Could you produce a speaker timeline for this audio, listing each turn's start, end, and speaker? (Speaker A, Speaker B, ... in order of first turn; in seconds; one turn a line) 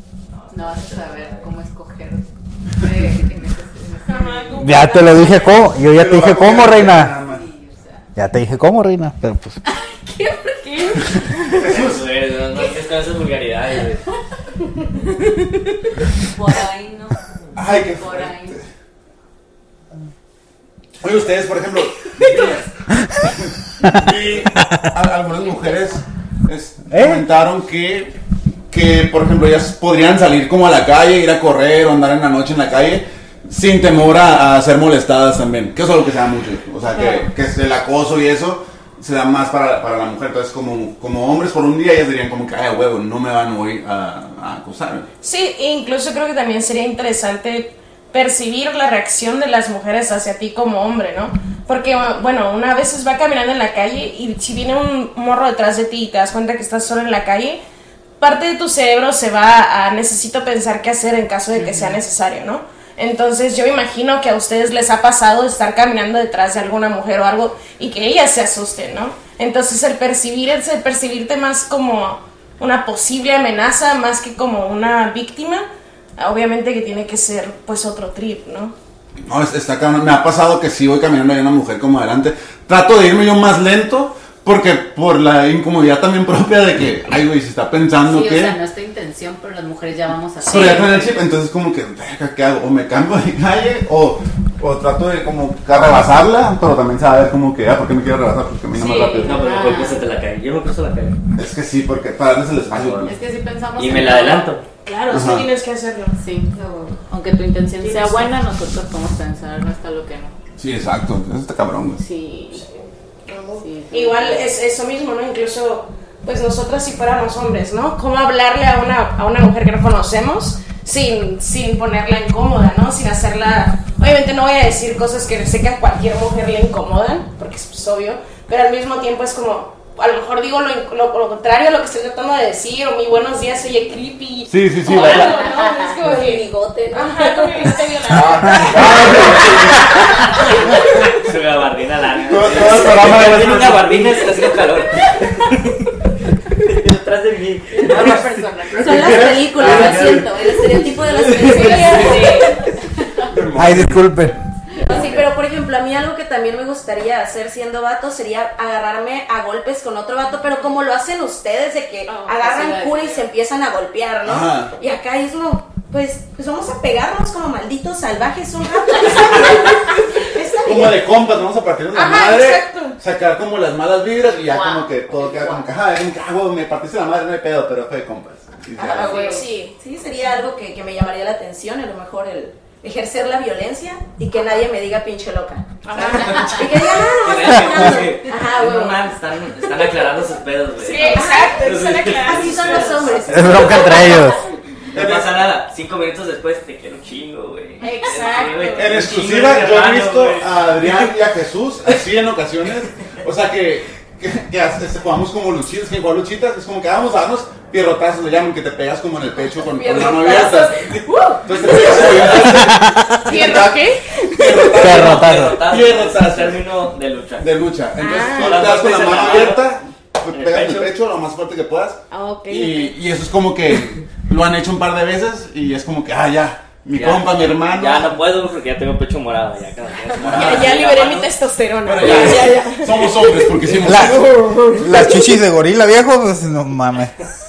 Speaker A: 0.3-1.5
Speaker B: 0.5-2.2
Speaker B: 2.8-4.7
Speaker C: 4.0-5.7
Speaker D: 4.6-7.1
Speaker E: 5.9-7.4
Speaker B: 7.2-8.1
Speaker D: 8.2-9.6
Speaker B: 9.7-11.0
Speaker C: 10.6-11.6
Speaker E: 11.5-12.0
Speaker A: 11.6-14.0
Speaker B: 16.2-18.6
Speaker E: 17.5-18.6
Speaker E: 21.0-28.1
Speaker B: 25.5-25.9
Speaker D: 26.9-27.2
Speaker E: 28.7-45.1
Speaker C: 36.9-37.3
Speaker C: 45.2-57.6
Speaker C: 58.2-75.7
Speaker B: 61.5-62.0
Speaker C: 76.2-78.7
Speaker E: 79.3-88.5
Speaker B: 88.0-91.0
Speaker C: 90.4-91.0
Speaker E: 90.5-99.4
Speaker C: 98.8-100.0
Speaker A: 99.2-101.2
Speaker B: 99.6-99.9
Speaker E: 101.3-103.1
Speaker A: 102.7-103.1
Speaker B: 103.0-104.5
Speaker A: 103.8-104.6
Speaker C: 104.8-106.2
Speaker E: 105.1-105.5
Speaker B: 106.2-110.3
Speaker C: 107.8-108.3
Speaker E: 110.6-112.0
Speaker B: 112.0-112.7
Speaker C: 113.3-139.6
Speaker B: 113.6-114.5
Speaker E: 134.5-135.4
Speaker B: 135.0-135.9
Speaker F: 136.0-137.9
Speaker E: 138.1-140.2
Speaker A: 138.6-145.8
Speaker E: 142.2-144.3
Speaker A: 146.6-148.4
Speaker B: 147.7-153.3
Speaker E: 148.7-150.3
Speaker F: 148.7-152.5
Speaker A: 148.9-150.2
Speaker A: 150.9-152.3
Speaker C: 151.4-152.5
Speaker E: 153.2-154.1
Speaker D: 153.5-154.4
Speaker A: 154.9-155.2
Speaker F: 154.9-170.9
Speaker B: 162.1-163.2
Speaker E: 164.2-164.7
Speaker E: 170.6-179.3
Speaker C: 171.9-173.0
Speaker B: 174.2-175.7
Speaker F: 178.8-189.1
Speaker C: 179.1-179.8
Speaker B: 179.1-179.4
Speaker C: 185.8-186.7
Speaker A: 186.1-194.2
Speaker C: 190.8-193.1
Speaker F: 190.9-194.0
Speaker D: 193.3-194.4
Speaker A: 194.9-201.1
Speaker E: 194.9-195.4
Speaker B: 197.8-198.7
Speaker C: 197.8-198.8
Speaker E: 198.7-216.7
Speaker C: 209.6-212.5
Speaker A: 211.6-212.7
Speaker D: 212.6-213.3
Speaker C: 213.2-214.7
Speaker D: 214.7-215.6
Speaker A: 214.7-217.5
Speaker E: 217.4-228.2
Speaker C: 218.0-218.7
Speaker A: 218.3-219.7
Speaker A: 220.3-220.9
Speaker C: 222.1-222.9
Speaker A: 226.9-231.3
Speaker E: 230.2-230.8
Speaker C: 230.2-235.2
Speaker E: 231.8-234.6
Speaker D: 233.8-237.1